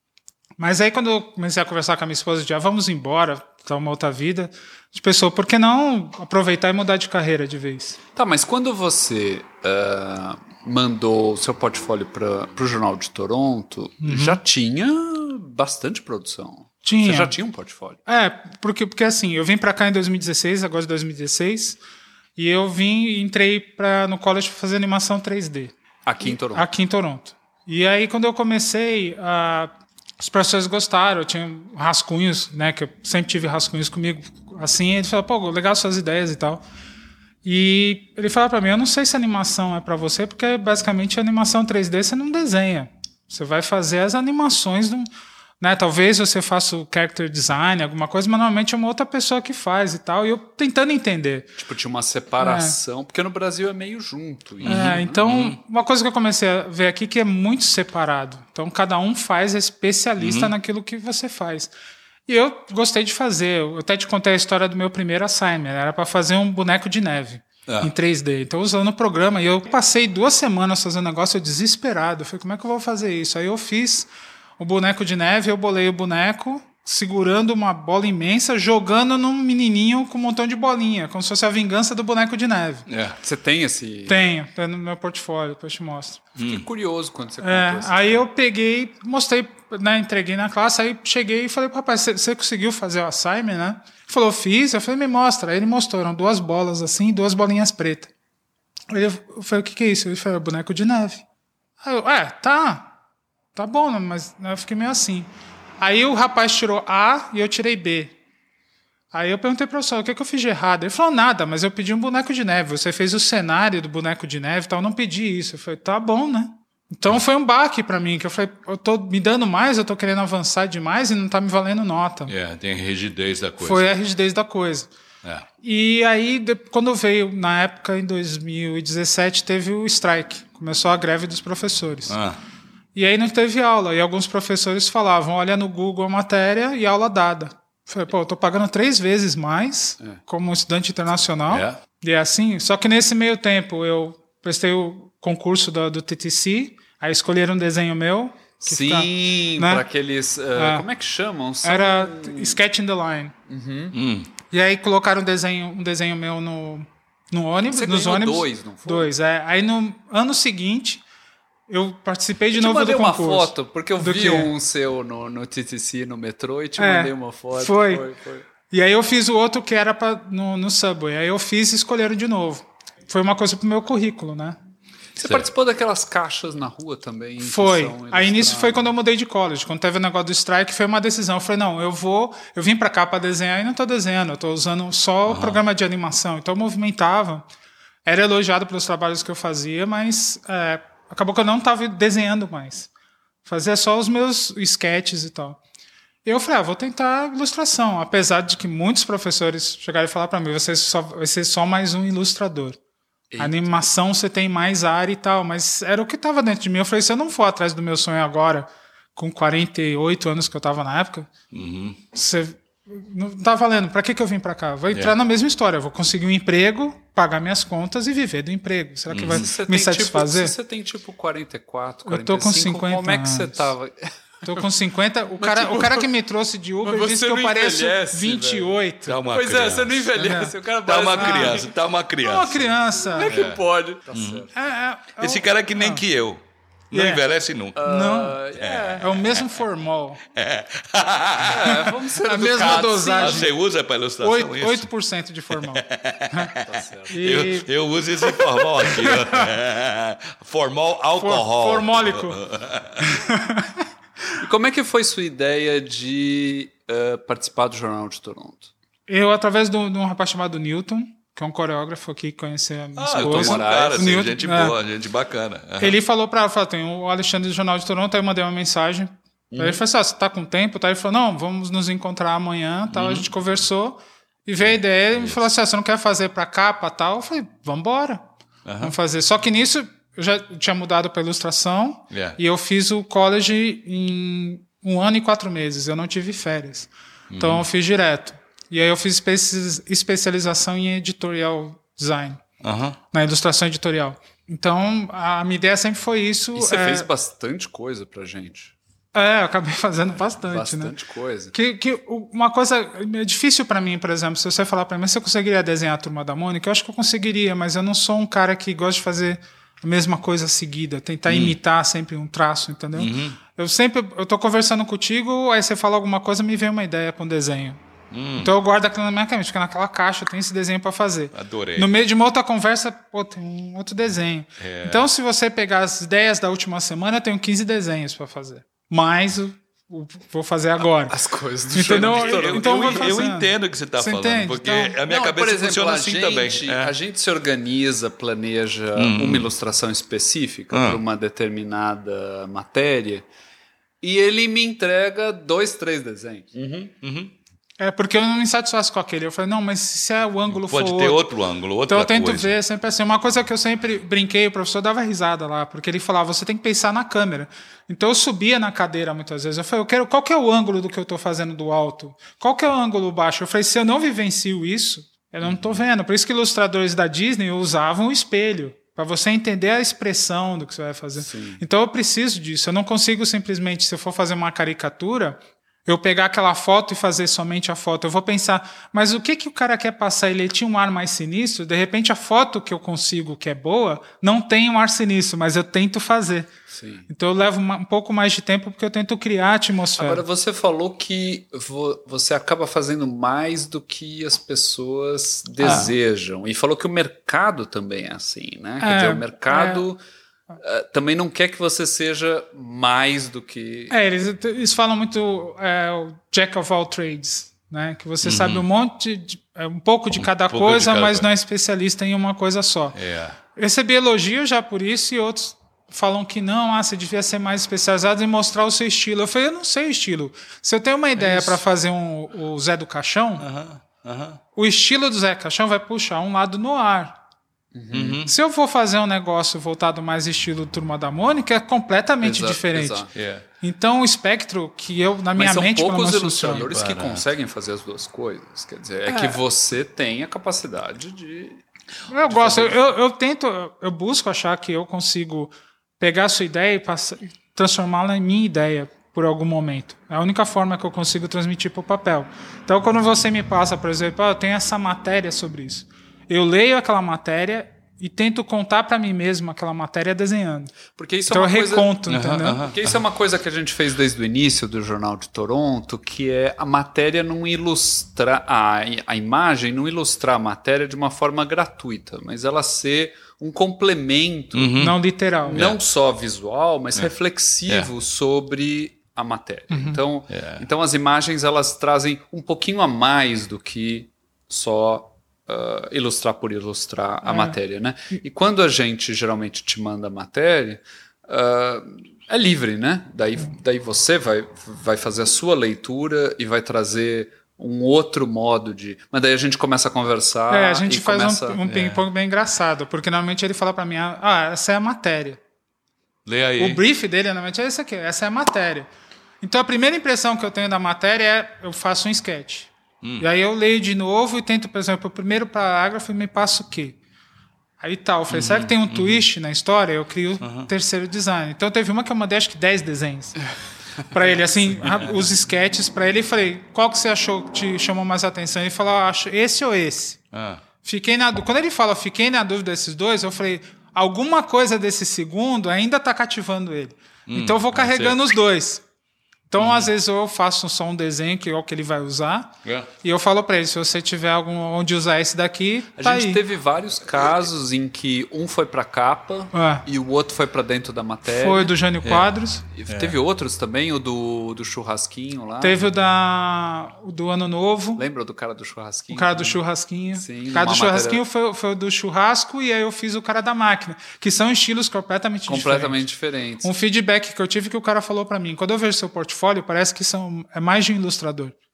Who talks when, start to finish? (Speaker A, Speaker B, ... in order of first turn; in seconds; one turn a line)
Speaker A: 0.6-8.0
Speaker B: 8.2-18.0
Speaker A: 14.0-14.4
Speaker A: 16.8-17.4
Speaker A: 18.1-21.8
Speaker A: 22.4-36.6
Speaker B: 26.1-26.7
Speaker A: 37.4-45.1
Speaker A: 45.6-51.5
Speaker B: 51.6-55.2
Speaker A: 52.4-52.8
Speaker C: 54.6-55.6
Speaker A: 54.6-61.7
Speaker C: 60.2-60.5
Speaker A: 62.3-82.9
Speaker C: 82.9-83.2
Speaker B: 83.2-84.3
Speaker A: 84.1-86.2
Speaker B: 86.4-88.2
Speaker C: 86.4-86.7
Speaker A: 87.4-98.1
Speaker A: 98.9-101.2
Speaker A: 101.8-102.9
Speaker A: 103.5-108.2
Speaker A: 109.1-122.3
Speaker C: 122.3-123.9
Speaker A: 123.6-124.9
Speaker A: 125.6-132.2
Speaker C: 132.1-132.4
Speaker A: 132.9-149.8
Speaker C: 141.5-141.8
Speaker B: 148.6-152.6
Speaker A: 150.5-150.9
Speaker A: 151.6-153.3
Speaker B: 153.5-154.0
Speaker C: 153.9-154.3
Speaker A: 154.5-161.0
Speaker B: 157.7-159.1
Speaker A: 161.7-164.5
Speaker B: 162.5-168.4
Speaker A: 166.8-168.1
Speaker A: 168.7-174.6
Speaker B: 175.2-178.9
Speaker A: 177.4-187.4
Speaker C: 185.3-185.6
Speaker A: 188.1-192.9
Speaker A: 193.4-195.6
Speaker A: 196.2-202.8
Speaker B: 203.3-203.7
Speaker A: 203.4-211.3
Speaker C: 211.5-212.0
Speaker A: 212.1-220.6
Speaker C: 219.1-219.5
Speaker B: 219.3-224.7
Speaker A: 222.1-223.7
Speaker A: 224.4-229.2
Speaker B: 225.4-226.1
Speaker B: 226.8-231.7
Speaker C: 229.1-232.7
Speaker A: 230.2-230.5
Speaker A: 231.2-231.6
Speaker A: 232.2-233.4
Speaker B: 233.0-234.5
Speaker C: 233.3-234.5
Speaker A: 234.5-236.0
Speaker C: 235.2-237.8
Speaker A: 236.9-237.2
Speaker B: 237.8-239.2
Speaker A: 237.8-238.4
Speaker C: 238.6-239.5
Speaker A: 239.0-240.2
Speaker C: 240.3-241.8
Speaker B: 241.4-243.5
Speaker A: 241.7-243.5
Speaker C: 242.5-244.9
Speaker A: 244.2-246.5
Speaker C: 245.5-246.6
Speaker B: 246.6-247.2
Speaker A: 247.1-247.7
Speaker C: 247.2-253.0
Speaker A: 248.2-249.5
Speaker A: 251.2-252.4
Speaker A: 253.0-253.7
Speaker B: 254.4-258.7
Speaker A: 259.1-264.8
Speaker C: 262.9-266.0
Speaker B: 263.1-264.3
Speaker A: 265.8-278.2
Speaker B: 269.5-269.8
Speaker C: 272.9-273.3
Speaker C: 274.6-275.4
Speaker C: 278.6-278.9
Speaker A: 278.8-292.4
Speaker C: 282.1-282.4
Speaker C: 287.3-287.7
Speaker C: 292.6-293.0
Speaker A: 293.1-297.1
Speaker B: 296.6-298.8
Speaker A: 299.1-300.9
Speaker B: 300.5-301.5
Speaker A: 301.5-317.8
Speaker C: 311.3-311.6
Speaker C: 312.9-313.4
Speaker C: 318.1-318.5
Speaker A: 318.4-331.2
Speaker C: 321.3-321.9
Speaker C: 324.6-325.1
Speaker B: 330.8-333.2
Speaker A: 331.7-335.0
Speaker C: 331.8-336.9
Speaker B: 335.1-343.3
Speaker C: 338.9-339.5
Speaker C: 340.7-341.0
Speaker B: 344.0-346.9
Speaker C: 347.0-347.3
Speaker A: 347.8-351.3
Speaker C: 350.5-352.6
Speaker A: 351.9-386.5
Speaker B: 365.4-365.8
Speaker B: 371.2-371.6
Speaker B: 386.7-387.1
Speaker A: 387.1-390.2
Speaker B: 390.0-400.0
Speaker A: 395.6-395.9
Speaker A: 398.8-399.9
Speaker B: 400.6-403.9
Speaker A: 403.9-413.0
Speaker C: 408.2-408.6
Speaker C: 410.2-411.3
Speaker C: 412.9-413.4
Speaker A: 413.5-423.4
Speaker B: 421.2-421.6
Speaker C: 423.4-424.4
Speaker A: 424.6-427.2
Speaker B: 427.7-428.2
Speaker C: 427.9-428.3
Speaker A: 428.2-433.1
Speaker B: 432.2-433.1
Speaker C: 433.1-433.4
Speaker A: 433.6-436.7
Speaker B: 435.3-441.6
Speaker C: 436.6-437.3
Speaker A: 439.1-439.4
Speaker A: 442.1-460.8
Speaker B: 442.2-442.9
Speaker B: 461.0-462.0
Speaker A: 461.3-462.6
Speaker C: 462.1-462.8
Speaker B: 462.6-474.8
Speaker C: 474.5-475.0
Speaker A: 474.8-475.7
Speaker B: 475.3-501.6
Speaker C: 475.5-475.8
Speaker A: 479.7-480.0
Speaker C: 480.3-480.6
Speaker A: 487.2-487.6
Speaker A: 500.5-505.4
Speaker C: 501.6-502.1
Speaker C: 506.2-506.8
Speaker A: 506.6-508.9
Speaker A: 509.4-517.0
Speaker C: 513.0-513.3
Speaker A: 517.8-523.4
Speaker C: 518.3-519.3
Speaker C: 520.4-520.7
Speaker A: 524.1-530.2
Speaker C: 524.8-525.1
Speaker C: 530.3-530.6
Speaker A: 530.8-538.8
Speaker C: 537.3-538.2
Speaker A: 539.5-546.4
Speaker C: 539.6-539.9
Speaker B: 546.0-551.7
Speaker A: 549.5-549.9
Speaker A: 551.3-552.6
Speaker C: 552.0-552.4
Speaker B: 552.7-555.9
Speaker C: 552.9-553.2
Speaker A: 555.6-558.0
Speaker B: 558.0-559.6
Speaker A: 559.1-566.1
Speaker B: 560.1-561.2
Speaker B: 565.5-566.7
Speaker A: 566.6-571.5